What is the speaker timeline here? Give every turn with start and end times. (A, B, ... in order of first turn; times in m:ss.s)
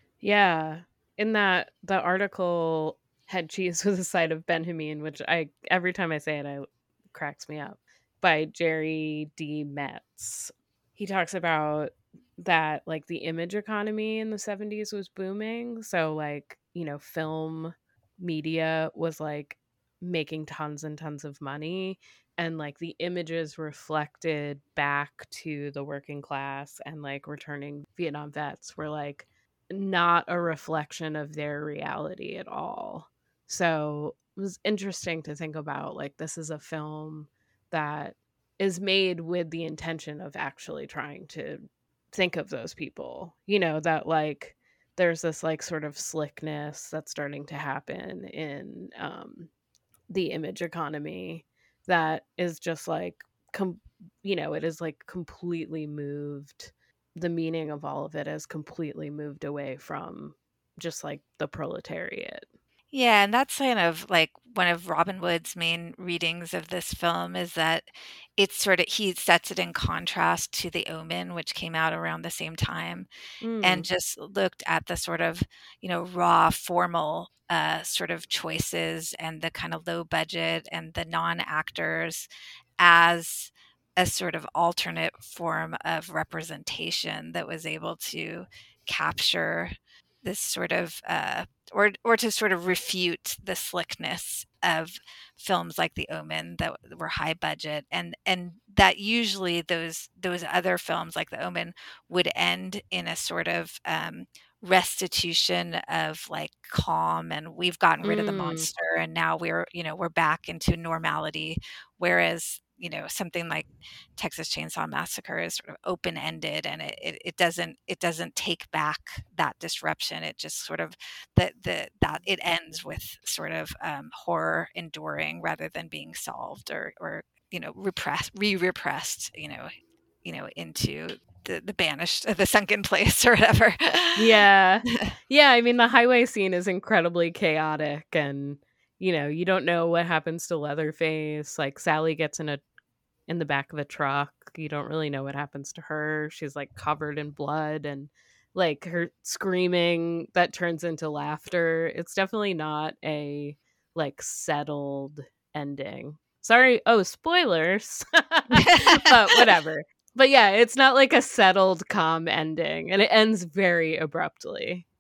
0:00.2-0:49.5 A
0:50.1-1:02.5 A
1:02.9-1:13.1 B
1:13.4-1:13.9 A
1:13.6-1:22.3 B
1:22.8-2:09.7 B
1:48.0-1:48.7 A
2:10.2-2:14.2 B
2:14.2-2:22.6 A
2:23.3-2:44.8 A
2:38.6-2:39.0 B